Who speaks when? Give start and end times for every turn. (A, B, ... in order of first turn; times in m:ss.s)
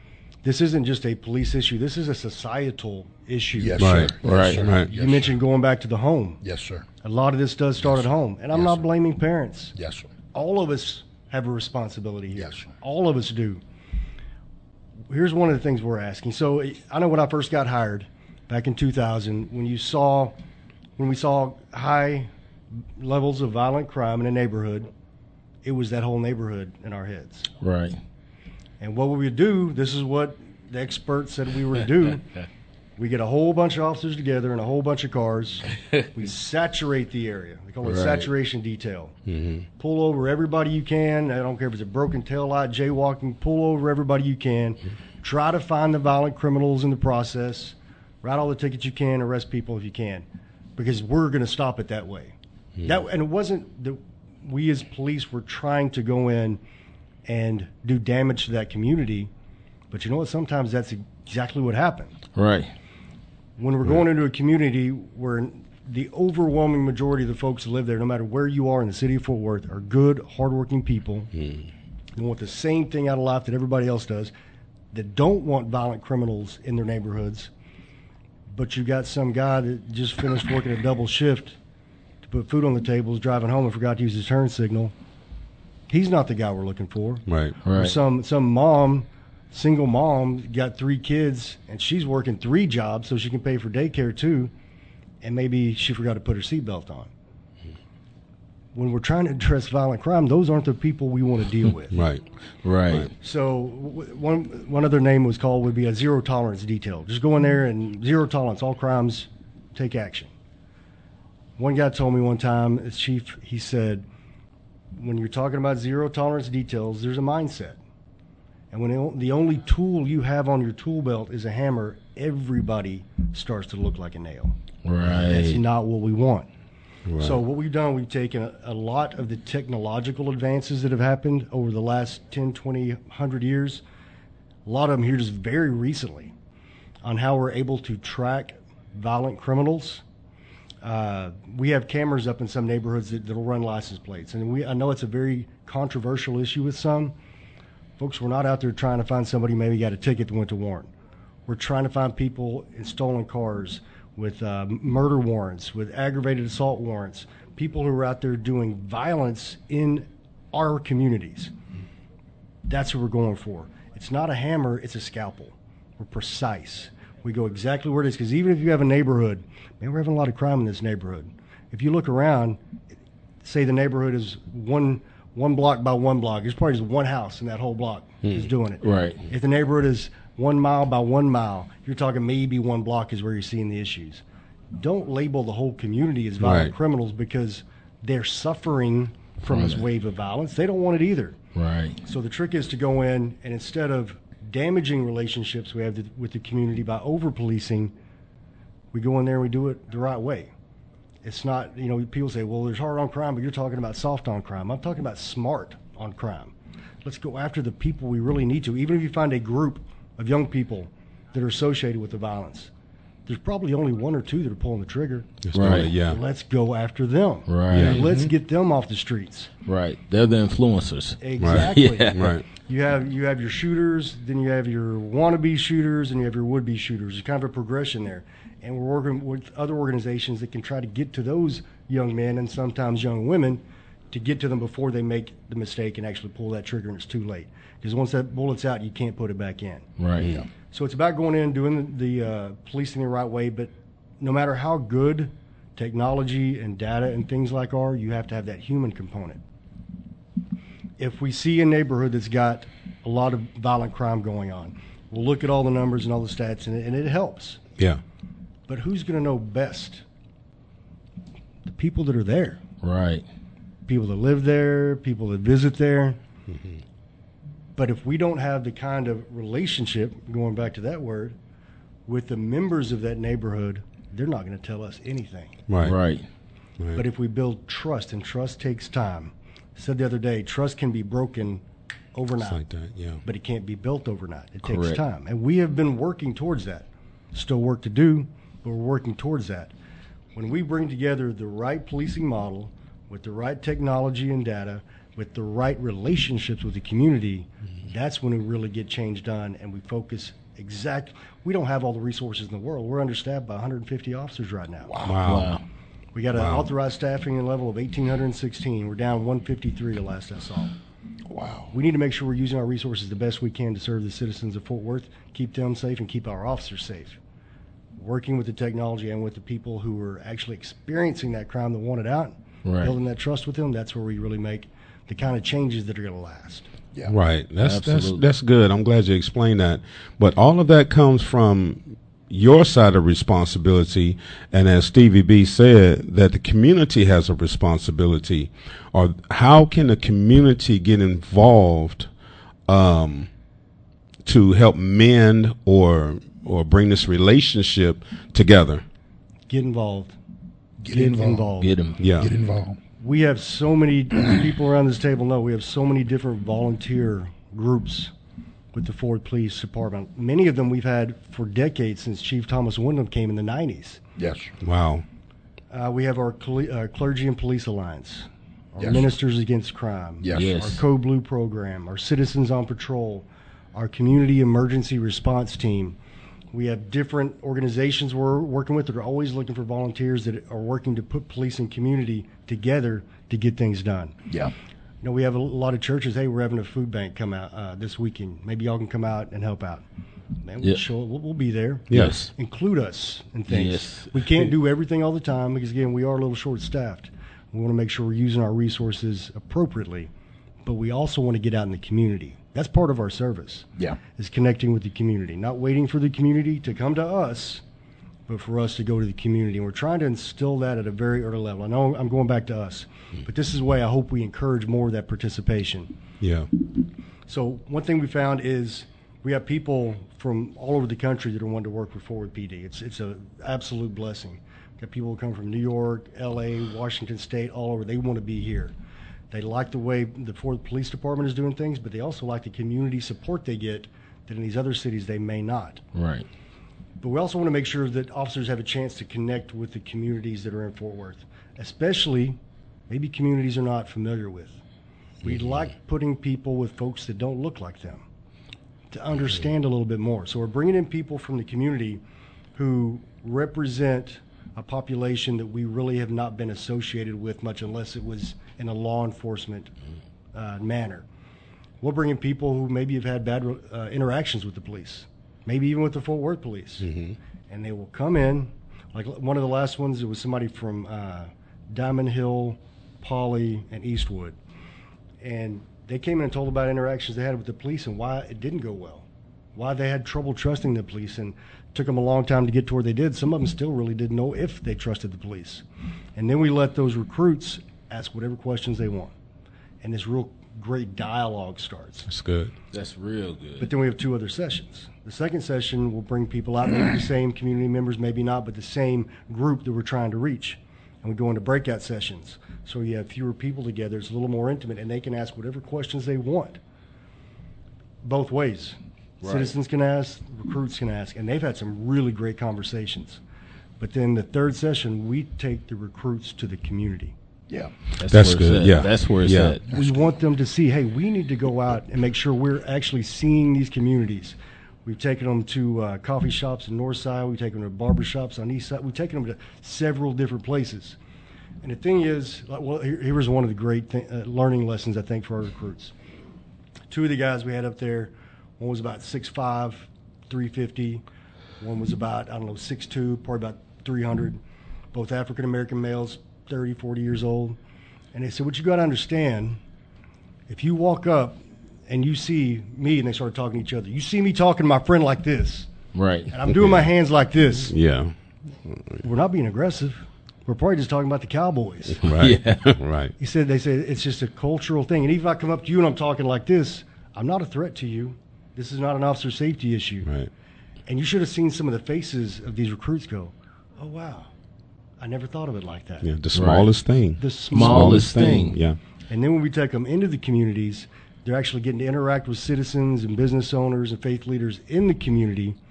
0:00.4-0:04.1 A
0:03.6-0:05.4 B
0:03.8-0:04.9 C
0:04.2-0:04.6 D
0:04.8-0:06.4 A
0:06.4-0:06.9 B
0:07.0-0:09.7 A
0:07.8-0:08.9 B
0:09.7-0:10.1 B
0:10.3-0:13.6 A
0:12.4-0:12.7 B
0:15.1-0:20.4 A
0:21.0-0:24.9 A
0:25.6-0:27.5 A
0:27.6-0:28.0 D
0:28.8-0:32.2 A
0:33.0-0:39.2 A
0:37.8-0:38.3 D
0:39.3-0:39.6 C
0:39.8-0:56.6 A
0:57.3-0:59.3 A
0:59.9-1:02.1 A
1:02.3-1:02.7 D
1:03.6-1:11.3 A
1:11.4-1:11.6 C
1:12.2-1:14.3 A
1:14.9-1:17.5 A
1:18.5-1:21.6 A
1:22.2-1:24.9 A
1:25.9-1:34.5 A
1:27.3-1:27.6 C
1:27.6-1:28.0 D
1:35.2-1:37.1 A
1:38.7-1:42.1 A
1:41.9-1:42.2 C
1:42.6-1:43.1 D
1:43.2-1:50.3 A
1:51.6-1:54.0 A
1:54.9-1:57.8 A
1:58.7-2:06.5 A
2:04.8-2:05.6 D
2:07.1-2:07.4 C
2:07.2-2:13.8 A
2:14.6-2:16.3 A
2:17.0-2:20.0 A
2:20.8-2:27.1 A
2:28.0-2:30.9 A
2:31.4-2:41.5 A
2:42.7-2:52.6 A
2:53.4-3:04.2 A
2:58.8-2:59.2 D
3:04.8-3:11.4 A
3:06.4-3:06.7 C
3:09.4-3:09.9 D
3:11.6-3:12.0 D
3:12.0-3:17.9 A
3:18.9-3:20.5 A
3:21.2-3:32.7 A
3:33.3-3:39.5 A
3:35.4-3:36.2 C
3:35.6-3:35.9 D
3:37.4-3:38.0 D
3:37.7-3:38.0 C
3:37.8-3:38.3 B
3:39.6-3:42.3 D
3:41.2-3:59.9 A
3:41.4-3:42.4 C
4:00.0-4:00.4 D
4:00.2-4:00.5 B
4:00.7-4:09.4 A
4:11.0-4:17.6 A
4:18.7-4:20.0 A
4:21.6-4:22.6 A
4:22.8-4:23.2 D
4:23.9-4:26.2 A
4:27.8-4:31.4 A
4:32.0-4:35.6 A
4:35.7-4:36.0 C
4:35.8-4:36.3 D
4:36.9-4:41.6 A
4:42.1-4:42.6 A
4:42.4-4:43.2 C
4:43.2-4:49.7 A
4:44.6-4:45.0 D
4:50.3-5:04.9 A
5:04.9-5:05.4 B
5:05.0-5:05.6 C
5:05.2-5:05.6 D
5:06.1-5:10.7 A
5:06.3-5:06.7 C
5:11.3-5:11.7 B
5:11.7-5:17.2 A
5:18.0-5:26.7 A
5:22.6-5:23.0 D
5:27.1-5:42.1 C
5:27.6-5:28.2 D
5:42.7-5:43.3 C
5:44.2-5:48.8 C
5:49.5-5:50.2 A
5:50.8-5:51.5 B
5:50.9-5:51.7 A
5:51.6-5:52.0 D
5:52.0-5:52.3 C
5:52.2-5:52.8 B
5:53.0-5:58.1 A
5:58.7-6:04.0 A
6:04.2-6:04.5 B
6:04.6-6:05.0 C
6:05.7-6:16.0 A
6:08.8-6:09.1 B
6:10.2-6:10.7 B
6:10.3-6:10.8 D
6:16.5-6:24.2 A
6:24.3-6:24.5 B
6:25.0-6:29.9 A
6:30.4-6:40.1 A
6:31.9-6:32.2 C
6:31.9-6:32.3 D
6:33.5-6:34.6 D
6:40.6-6:47.6 A
6:48.3-6:55.9 A
6:56.2-6:56.5 C
6:57.3-7:08.7 A
7:09.3-7:15.8 A
7:15.9-7:16.3 D
7:17.0-7:24.6 A
7:25.2-7:28.0 A
7:25.3-7:25.5 D
7:28.9-7:32.0 A
7:32.6-7:39.7 A
7:40.3-7:41.0 A
7:41.8-7:46.9 A
7:46.8-7:47.2 C
7:47.5-7:54.4 A
7:55.2-8:05.6 A
8:06.2-8:09.1 A
8:09.8-8:12.1 A
8:12.1-8:12.5 C
8:12.7-8:13.7 D
8:13.6-8:26.6 A
8:28.0-8:33.2 A
8:29.2-8:29.5 D
8:33.8-8:37.1 A
8:38.0-8:39.6 D
8:38.0-8:39.6 C
8:39.7-8:51.0 A
8:39.7-8:40.1 B
8:51.6-8:55.9 A
8:56.9-9:01.0 A
9:01.6-9:04.4 A
9:04.9-9:07.6 A
9:08.1-9:09.6 A
9:10.5-9:15.7 A
9:15.9-9:16.3 D
9:16.3-9:17.8 A
9:17.7-9:18.1 C
9:18.7-9:19.0 C
9:19.0-9:22.0 A
9:22.0-9:23.1 C
9:22.0-9:22.7 D
9:23.2-9:30.1 A
9:30.0-9:30.3 C
9:30.8-9:34.3 A
9:35.0-9:36.1 A
9:36.0-9:38.8 C
9:36.4-9:36.7 D
9:37.2-9:38.6 A
9:37.5-9:38.6 D
9:39.1-9:45.6 A